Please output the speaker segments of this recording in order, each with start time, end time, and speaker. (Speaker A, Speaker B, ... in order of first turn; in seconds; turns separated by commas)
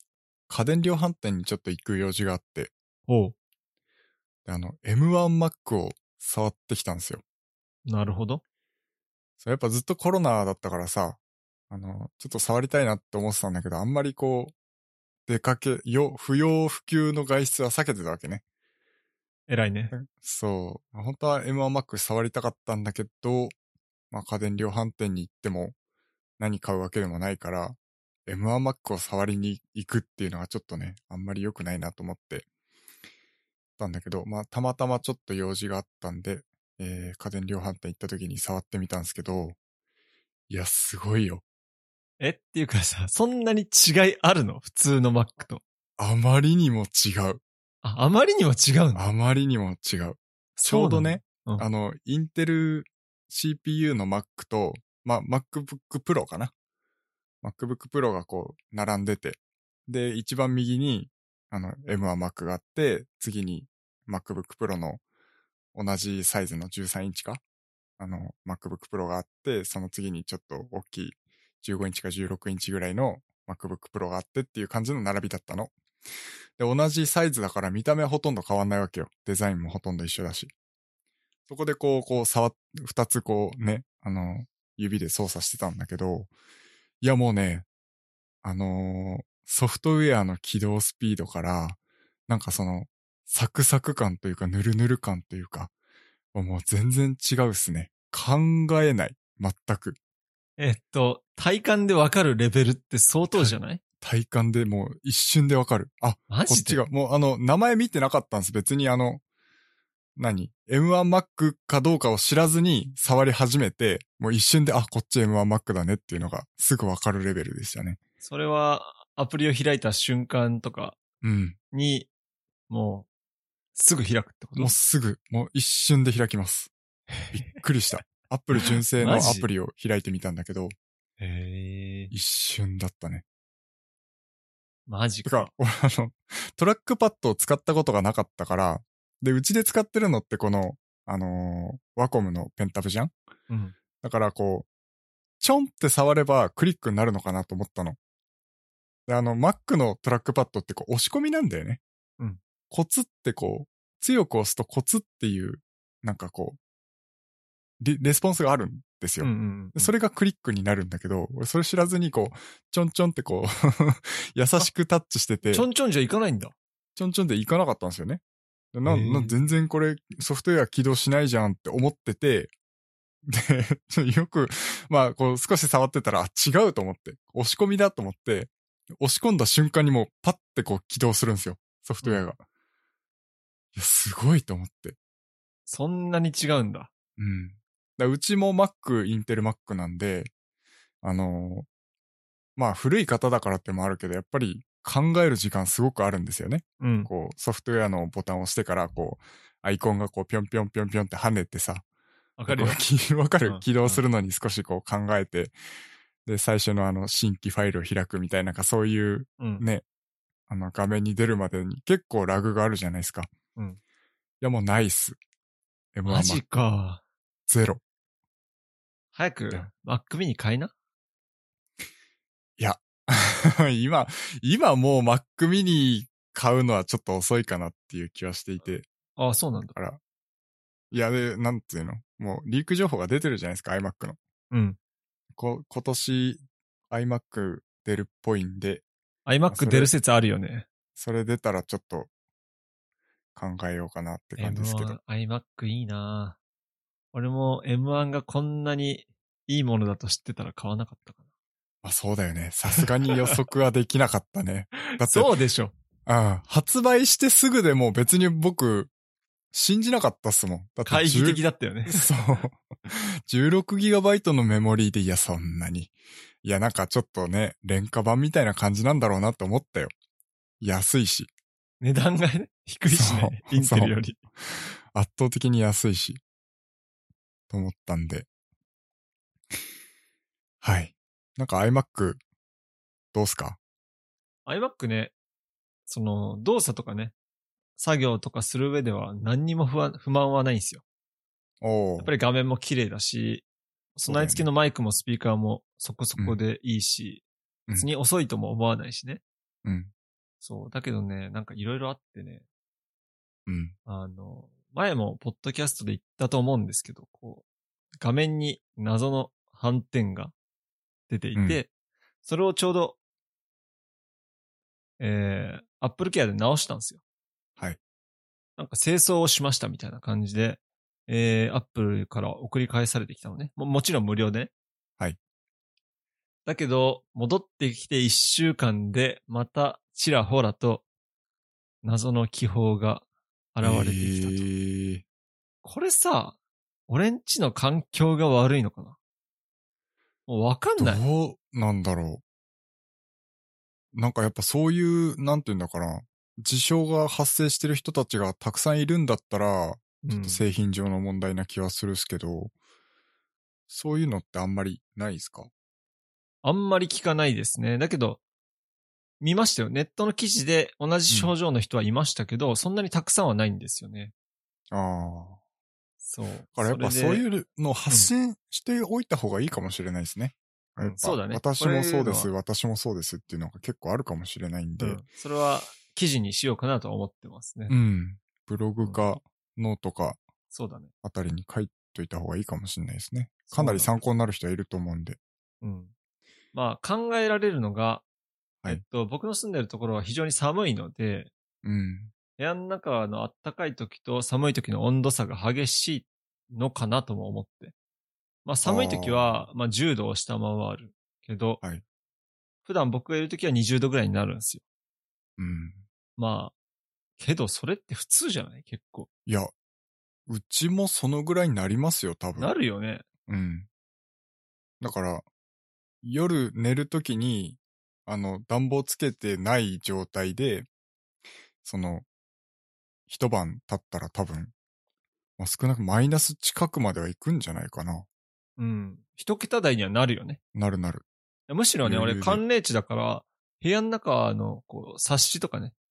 Speaker A: 0.5-2.7, Speaker B: 3.1-3.3, Speaker A: 4.5-7.2, Speaker B: 7.8-8.4, Speaker A: 9.4-11.2, Speaker A: 11.7-14.5, Speaker A: 15.3-18.4, Speaker B: 19.5-19.9, Speaker A: 19.9-23.5, Speaker A: 24.1-25.7, Speaker A: 26.4-32.5, Speaker A: 33.8-39.6, Speaker A: 40.5-41.4, Speaker B: 42.2-45.6, Speaker A: 46.0-47.4, Speaker B: 47.8-49.0, Speaker A: 48.9-56.5, Speaker B: 50.6-51.6, Speaker A: 57.4-65.0, Speaker A: 65.7-67.4, Speaker A: 68.0-75.7, Speaker A: 76.6-80.5, Speaker A: 81.5-86.3, Speaker A: 87.0-87.7, Speaker A: 88.4-91.8, Speaker A: 92.3-95.7, Speaker A: 96.3-100.0, Speaker B: 100.6-103.8, Speaker A: 103.3-109.2, Speaker B: 106.3-106.8, Speaker A: 110.2-118.0, Speaker B: 118.2-121.0, Speaker A: 121.2-121.6, Speaker B: 121.7-122.1, Speaker B: 122.7-123.1, Speaker B: 123.7-124.7, Speaker A: 124.5-126.7, Speaker A: 127.3-130.7, Speaker B: 129.0-129.5, Speaker B: 131.2-132.1, Speaker A: 132.1-133.2, Speaker B: 134.9-135.5, Speaker A: 135.2-143.1, Speaker B: 143.5-143.7, Speaker A: 144.0-144.7, Speaker A: 145.4-148.0, Speaker A: 149.1-151.8, Speaker A: 152.7-156.6, Speaker A: 157.8-165.7, Speaker B: 159.2-159.9, Speaker B: 165.5-166.5, Speaker A: 166.9-168.2, Speaker A: 168.7-172.5, Speaker B: 168.8-169.3, Speaker A: 173.2-182.4, Speaker B: 182.0-182.3, Speaker A: 183.7-185.0, Speaker B: 185.7-186.9, Speaker A: 187.2-190.3, Speaker A: 191.0-191.7, Speaker A: 192.6-201.8, Speaker B: 196.8-197.1, Speaker B: 202.4-202.8, Speaker A: 202.5-205.5, Speaker B: 203.4-204.0, Speaker A: 206.2-209.8, Speaker B: 209.4-209.6, Speaker A: 210.5-213.3, Speaker A: 214.4-215.2, Speaker A: 215.9-216.4, Speaker B: 216.1-217.0, Speaker A: 217.5-217.8, Speaker B: 219.1-220.7, Speaker A: 222.6-228.9, Speaker B: 229.2-229.7, Speaker A: 229.7-230.0, Speaker A: 230.9-234.2, Speaker B: 234.5-234.8, Speaker A: 235.3-238.8, Speaker B: 239.2-240.7, Speaker A: 239.5-239.9, Speaker A: 240.9-242.1, Speaker A: 243.3-245.0, Speaker B: 244.4-246.4, Speaker B: 247.1-251.2, Speaker A: 251.8-255.3, Speaker B: 254.9-255.7, Speaker A: 256.1-258.9, Speaker A: 259.5-269.9, Speaker B: 260.9-262.1, Speaker A: 270.6-271.3, Speaker B: 271.8-274.2, Speaker A: 272.9-276.2, Speaker A: 277.5-278.3, Speaker A: 280.6-282.2, Speaker A: 283.1-283.6, Speaker B: 284.4-285.1, Speaker B: 285.9-287.1, Speaker B: 287.8-290.8, Speaker A: 291.6-292.1, Speaker B: 292.0-293.4, Speaker B: 293.9-299.2, Speaker A: 294.1-294.5, Speaker A: 299.6-299.9, Speaker B: 300.4-302.4, Speaker A: 303.5-303.7, Speaker B: 303.9-307.4, Speaker B: 308.0-310.3, Speaker B: 311.1-311.7, Speaker A: 311.3-311.6, Speaker B: 312.2-313.0, Speaker B: 315.0-317.0, Speaker B: 318.6-324.5, Speaker B: 326.4-330.8, Speaker B: 331.8-334.5, Speaker A: 333.6-335.0, Speaker B: 335.6-336.4, Speaker B: 336.9-339.0, Speaker B: 340.3-341.0, Speaker A: 340.8-342.2, Speaker A: 343.9-352.5, Speaker B: 350.0-350.4, Speaker A: 353.7-355.5, Speaker B: 356.4-358.2, Speaker B: 359.2-364.1, Speaker A: 361.1-361.3, Speaker A: 364.7-365.4, Speaker B: 366.0-367.2, Speaker A: 366.6-375.0, Speaker B: 370.8-372.3, Speaker B: 374.8-377.7, Speaker A: 377.7-380.2, Speaker B: 380.5-380.9, Speaker A: 381.0-385.2, Speaker B: 383.5-383.9, Speaker B: 385.6-385.9, Speaker B: 386.5-388.0, Speaker B: 388.7-391.3, Speaker A: 391.6-392.1, Speaker B: 392.4-397.7, Speaker B: 398.4-401.6, Speaker A: 398.6-399.4, Speaker B: 402.6-404.6, Speaker A: 405.4-405.8, Speaker B: 406.2-406.5, Speaker B: 407.2-409.1, Speaker A: 409.2-409.5, Speaker A: 410.3-412.5, Speaker B: 412.4-413.0, Speaker A: 413.3-413.7, Speaker A: 414.8-415.2, Speaker A: 416.0-420.7, Speaker A: 421.6-422.1, Speaker A: 423.1-424.5, Speaker A: 425.4-428.1, Speaker B: 428.6-430.4, Speaker A: 430.5-431.1, Speaker B: 431.5-435.7, Speaker A: 431.8-432.4